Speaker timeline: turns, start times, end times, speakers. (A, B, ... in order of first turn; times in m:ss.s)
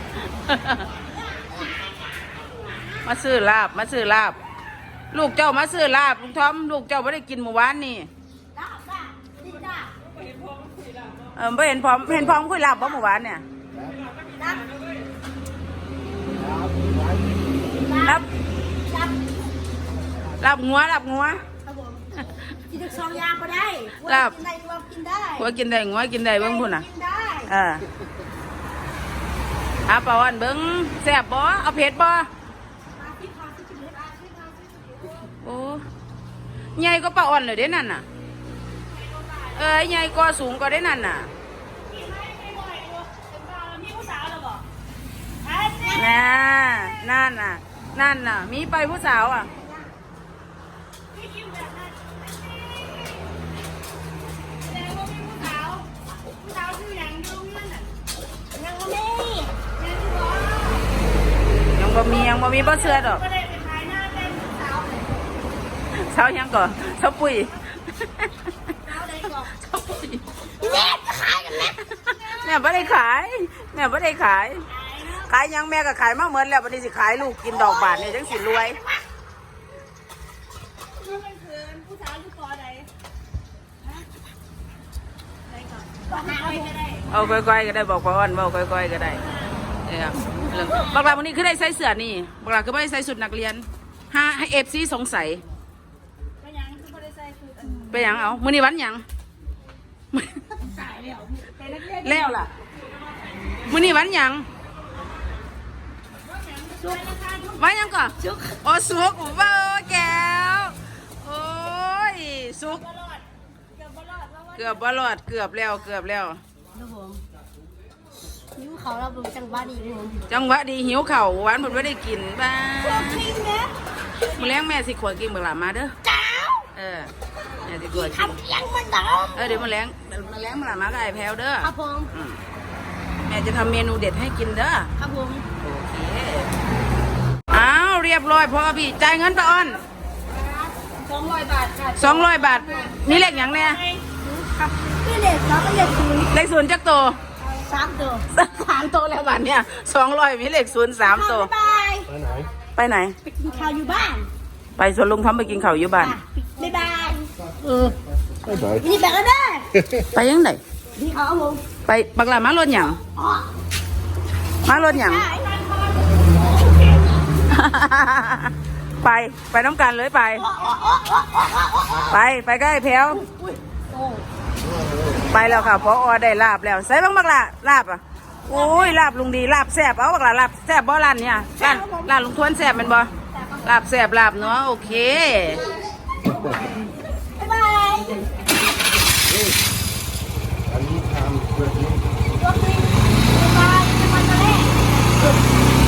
0:00.4-0:00.9 A
0:03.0-0:04.4 A
0:05.1-0:08.1 A
0:08.5-0:09.9 B
0:11.4-0:13.4 A
0:14.3-0:14.7 B
0:17.8-0:18.2 B
0:18.8-0:19.2 B
0:20.4-0:21.4 A
0:21.6-0:25.5 B
0:24.0-0:24.4 A
0:25.4-0:26.8 A
0:26.4-0:27.5 B
0:27.5-0:27.8 A
0:29.9-0:32.3 A
0:33.0-0:35.1 B
0:35.4-0:35.8 A
0:36.8-0:38.0 A
0:38.9-0:39.7 C
0:39.5-0:41.3 A
0:41.9-0:44.6 C
0:45.4-0:46.8 C
0:45.9-0:49.5 A
0:51.1-0:53.4 C
0:54.6-0:57.9 C
0:58.6-0:59.4 B
0:59.3-1:00.8 C
1:01.7-1:03.2 A
1:02.0-1:05.2 C
1:06.0-1:08.3 A
1:08.8-1:09.5 C
1:09.5-1:10.2 A
1:10.6-1:11.8 B
1:10.6-1:10.9 C
1:12.1-1:12.9 C
1:12.4-1:14.6 A
1:14.7-1:15.3 C
1:15.2-1:18.8 A
1:17.6-1:18.6 B
1:20.9-1:22.9 C
1:25.5-1:27.2 C
1:26.1-1:26.7 B
1:27.1-1:29.2 A
1:29.2-1:29.5 C
1:29.8-1:35.4 A
1:36.4-1:38.0 C
1:37.9-1:39.0 A
1:40.1-1:40.4 A
1:40.6-1:42.4 C
1:41.9-1:42.5 A
1:43.7-1:44.5 A
1:46.3-1:47.7 C
1:46.8-1:47.1 B
1:47.6-1:52.8 A
1:48.2-1:48.6 B
1:52.8-1:53.2 C
1:53.8-1:54.8 C
1:54.6-1:56.4 A
1:56.7-1:57.2 B
1:58.5-2:00.2 B
2:00.3-2:03.2 A
2:02.8-2:03.7 B
2:04.3-2:05.9 A
2:06.0-2:06.7 B
2:06.7-2:07.1 A
2:07.6-2:08.4 A
2:07.9-2:09.6 B
2:09.3-2:12.4 A
2:11.6-2:12.1 B
2:13.2-2:14.9 A
2:15.0-2:15.4 B
2:15.6-2:16.5 A
2:17.5-2:19.8 A
2:20.8-2:24.0 C
2:22.0-2:23.8 A
2:24.2-2:26.4 B
2:26.3-2:27.2 A
2:27.4-2:28.2 B
2:28.3-2:31.5 A
2:31.0-2:32.2 B
2:32.8-2:33.2 A
2:33.2-2:34.3 B
2:34.8-2:36.2 A
2:36.0-2:37.9 B
2:38.5-2:39.7 B
2:40.0-2:40.6 A
2:40.9-2:41.6 B
2:41.8-2:43.0 A
2:43.1-2:43.4 B
2:44.6-2:45.3 A
2:44.7-2:45.6 B
2:45.3-2:47.1 C
2:47.5-2:50.4 A
2:50.4-2:52.0 B
2:52.1-2:53.2 A
2:53.1-2:54.2 B
2:55.3-3:03.1 A
2:58.5-2:58.9 B
3:01.6-3:02.1 B
3:03.6-3:05.6 A
3:07.4-3:08.2 B
3:12.4-3:14.7 B